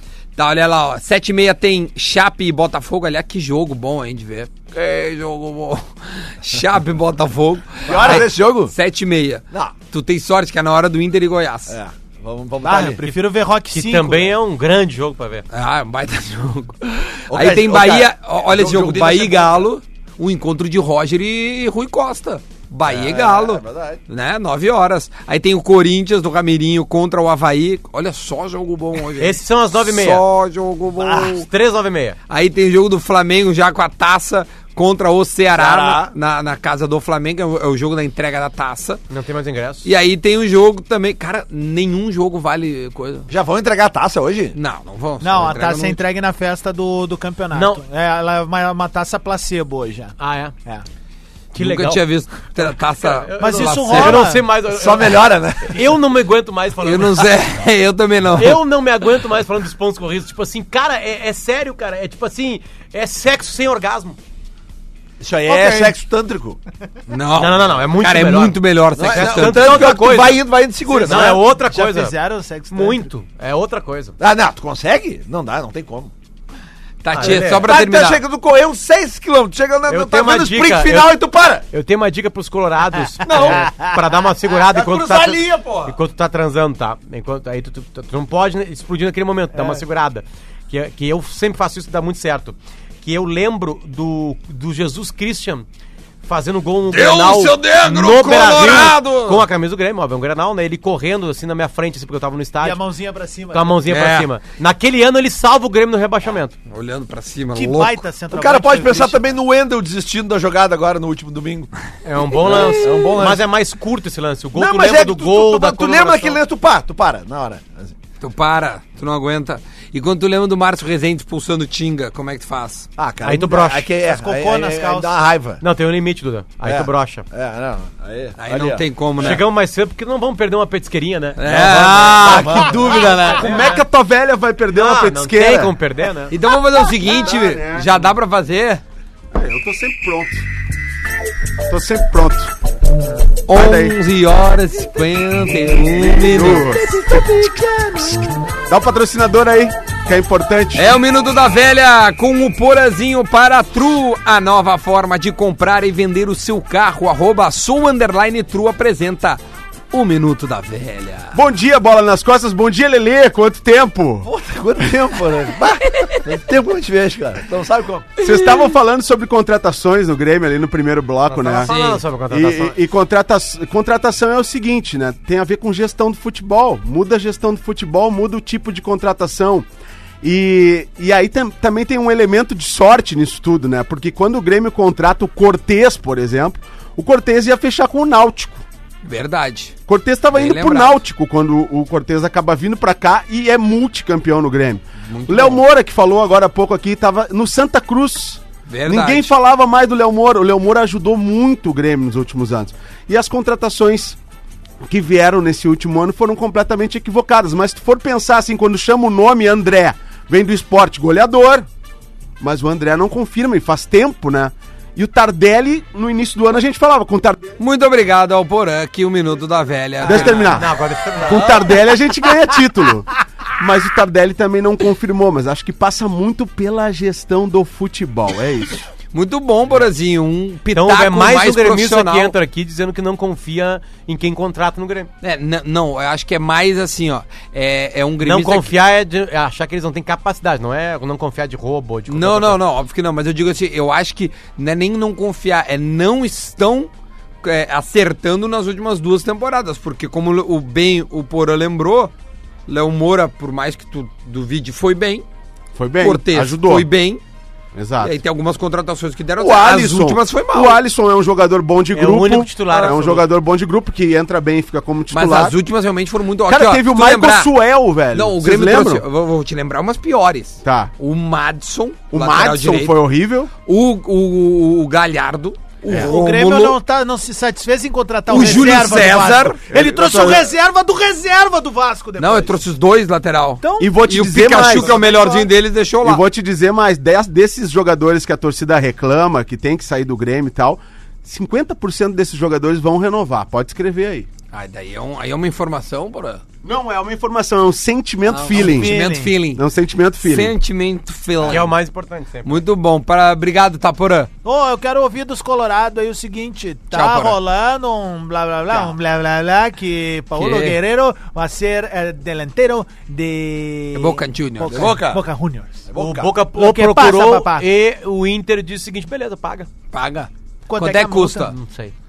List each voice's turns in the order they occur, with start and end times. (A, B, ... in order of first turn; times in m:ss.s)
0:00.4-0:11.8 A
0:07.9-0:08.7 B
0:11.7-0:13.1 B
0:12.6-0:14.4 C
0:13.7-0:15.5 D
0:15.5-0:31.5 A
0:17.3-0:19.7 B
0:22.9-0:24.0 B
0:29.2-0:30.2 D
0:31.1-0:32.2 D
0:32.3-0:39.0 A
0:35.6-0:36.1 B
0:39.1-0:39.9 D
0:39.8-0:43.3 A
0:43.3-0:44.6 B
0:44.5-0:46.0 A
0:45.2-0:50.1 C
0:47.5-0:47.8 D
0:50.2-0:50.5 D
0:51.5-0:52.1 D
0:51.6-0:54.2 A
0:52.6-0:57.3 D
0:53.4-0:54.5 C
0:54.7-0:55.9 B
0:56.8-0:58.6 A
0:58.3-1:04.2 D
1:05.2-1:06.6 B
1:05.5-1:06.0 C
1:07.1-1:09.9 A
1:07.4-1:12.2 D
1:09.0-1:11.4 B
1:10.9-1:13.1 C
1:12.7-1:14.2 D
1:14.2-1:16.1 B
1:17.0-1:18.2 A
1:17.2-1:17.7 D
1:17.2-1:21.6 B
1:19.9-1:35.7 D
1:23.2-1:23.8 B
1:24.5-1:26.0 B
1:29.5-1:29.8 C
1:36.2-1:42.8 D
1:36.9-1:39.4 A
1:38.4-1:39.0 B
1:42.6-1:43.8 C
1:43.5-1:46.6 D
1:43.9-1:44.3 A
1:46.7-1:48.0 A
1:47.6-1:49.2 C
1:48.3-1:51.7 B
1:52.0-1:56.4 D
1:52.4-1:53.4 B
1:52.4-1:53.2 A
1:54.6-1:58.0 B
1:58.2-2:02.9 A
2:03.0-2:05.6 B
2:03.2-2:03.9 D
2:04.0-2:05.2 C
2:05.6-2:07.3 D
2:06.6-2:09.4 B
2:08.4-2:09.4 A
2:09.2-2:13.8 D
2:11.4-2:13.5 A
2:11.5-2:13.2 B
2:13.3-2:15.8 E
2:14.7-2:16.4 D
2:16.3-2:18.8 A
2:17.0-2:17.9 E
2:19.3-2:20.4 E
2:21.7-2:22.5 E
2:23.5-2:28.2 A
2:23.5-2:24.0 E
2:26.1-2:30.8 E
2:30.7-2:39.4 A
2:39.9-2:41.4 A
2:41.3-2:44.3 E
2:44.2-2:48.2 B
2:45.8-2:46.4 A
2:48.2-2:59.7 E
2:48.2-2:48.7 A
2:51.3-2:52.8 D
3:00.2-3:08.6 E
3:09.0-3:09.8 A
3:09.9-3:24.2 E
3:10.3-3:11.0 A
3:15.1-3:15.6 A
3:18.7-3:19.3 A
3:24.9-3:31.7 E
3:32.4-3:37.5 E
3:37.6-3:40.7 A
3:40.0-3:41.7 D
3:40.0-3:48.9 E
3:49.1-3:52.4 A
3:50.7-3:55.1 D
3:55.2-3:58.8 A
3:58.2-4:02.6 D
4:02.1-4:06.9 A
4:07.4-4:12.1 A
4:12.7-4:15.3 A
4:15.8-4:16.9 E
4:16.0-4:17.2 A
4:17.8-4:18.2 E
4:18.0-4:20.8 A
4:19.4-4:25.6 E
4:21.9-4:23.3 D
4:25.1-4:27.5 A
4:26.4-4:29.0 E
4:28.1-4:33.0 A
4:30.6-4:30.9 E
4:32.1-4:33.5 E
4:33.6-4:36.8 A
4:35.9-4:42.6 C
4:38.3-4:39.6 A
4:38.4-4:40.5 E
4:42.2-4:46.2 A
4:43.6-4:45.5 C
4:43.8-4:45.0 E
4:46.0-4:54.3 E
4:54.5-4:56.4 A
4:56.6-4:59.0 E
4:58.3-4:59.6 A
4:58.5-4:59.4 C
4:59.5-5:00.6 E
5:00.2-5:01.7 A
5:01.5-5:02.6 D
5:02.4-5:04.3 A
5:04.4-5:15.9 C
5:06.9-5:07.4 A
5:08.7-5:08.9 D
5:10.4-5:10.8 A
5:13.9-5:15.0 A
5:14.7-5:15.2 B
5:15.9-5:16.4 B
5:16.0-5:19.7 D
5:16.5-5:17.7 C
5:19.9-5:21.6 A
5:20.7-5:21.5 C
5:21.4-5:21.9 D